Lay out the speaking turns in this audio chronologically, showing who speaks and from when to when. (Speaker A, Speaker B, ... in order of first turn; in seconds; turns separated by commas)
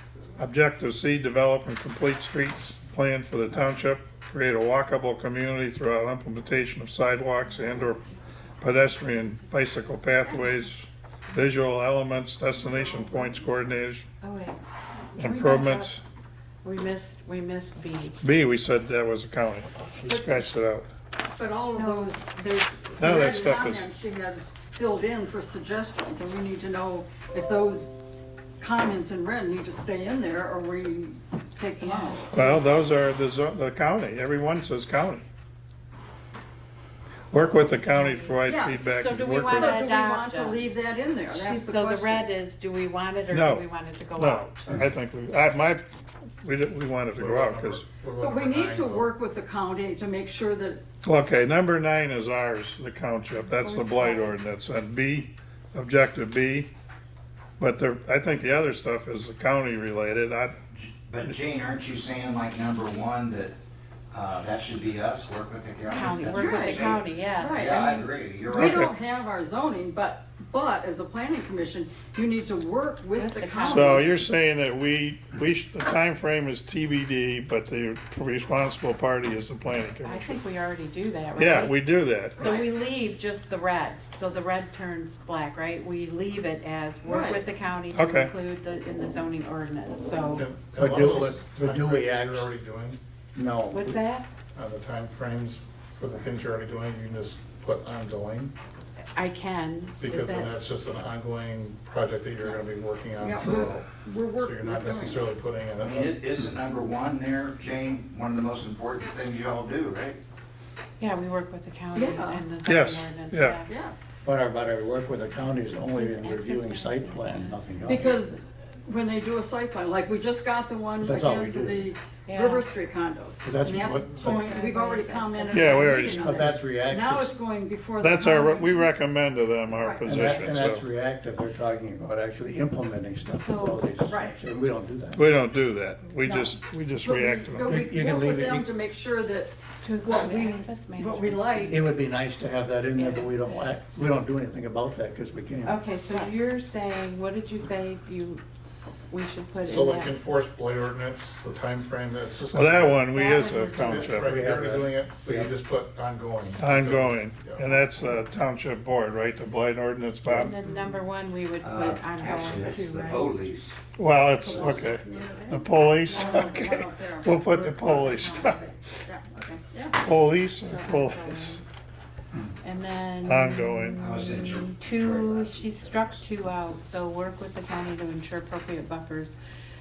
Speaker A: 0.4-8.0, Speaker B: 7.6-8.1, Speaker A: 8.6-14.1, Speaker B: 12.8-13.3, Speaker B: 14.2-14.6, Speaker B: 15.1-15.9, Speaker A: 15.2-16.0, Speaker B: 16.6-18.2, Speaker A: 18.2-20.9, Speaker C: 21.2-28.0, Speaker B: 21.7-22.2, Speaker A: 23.0-23.9, Speaker C: 28.6-32.4, Speaker B: 31.8-32.6, Speaker A: 32.3-35.2, Speaker A: 37.3-39.7, Speaker B: 37.9-38.4, Speaker C: 38.5-42.2, Speaker B: 38.9-40.6, Speaker B: 41.3-44.8, Speaker A: 43.3-45.8, Speaker A: 46.4-47.9, Speaker D: 47.2-49.1, Speaker C: 48.2-50.8, Speaker A: 51.0-56.7, Speaker B: 53.5-54.4, Speaker A: 57.6-60.6, Speaker E: 60.7-63.6, Speaker E: 64.1-68.8, Speaker B: 65.9-68.1, Speaker C: 66.5-68.1, Speaker A: 68.5-68.9, Speaker C: 68.6-74.1, Speaker B: 73.2-74.1, Speaker A: 73.7-80.4, Speaker B: 80.0-81.8, Speaker A: 81.4-82.5, Speaker C: 82.3-82.7, Speaker B: 82.4-90.5, Speaker C: 87.1-87.5, Speaker A: 87.9-88.3, Speaker D: 90.4-93.0, Speaker F: 90.8-92.5, Speaker F: 93.3-94.0, Speaker B: 93.7-94.3, Speaker D: 94.5-98.5, Speaker B: 99.2-100.5, Speaker D: 100.0-103.9, Speaker C: 103.2-105.4, Speaker D: 104.4-106.2, Speaker E: 105.8-110.2, Speaker B: 111.0-113.7, Speaker C: 111.9-112.5, Speaker A: 112.7-113.6, Speaker C: 113.7-114.2, Speaker F: 114.2-118.2, Speaker B: 115.9-117.6, Speaker C: 117.9-128.9, Speaker F: 121.0-121.9, Speaker B: 122.3-122.7, Speaker F: 123.5-124.5, Speaker B: 124.0-126.1, Speaker A: 125.5-126.3, Speaker F: 126.2-127.4, Speaker A: 128.0-130.8, Speaker C: 129.7-130.2, Speaker F: 130.0-135.3, Speaker B: 133.3-133.9, Speaker C: 134.1-134.4, Speaker A: 135.2-137.8, Speaker C: 136.2-141.8, Speaker F: 137.7-138.7, Speaker B: 139.8-141.9, Speaker F: 141.7-145.8, Speaker B: 142.9-143.4, Speaker B: 145.7-148.4, Speaker B: 149.1-150.2, Speaker D: 149.7-153.0, Speaker A: 152.5-154.3, Speaker B: 153.1-154.2, Speaker D: 153.7-157.6, Speaker F: 154.2-155.5, Speaker A: 156.6-160.5, Speaker B: 160.3-163.4, Speaker E: 161.6-163.9, Speaker A: 164.0-168.6, Speaker C: 164.4-170.0, Speaker A: 170.0-171.6, Speaker B: 170.7-171.6, Speaker B: 172.6-179.3, Speaker A: 173.2-174.0, Speaker E: 174.0-176.2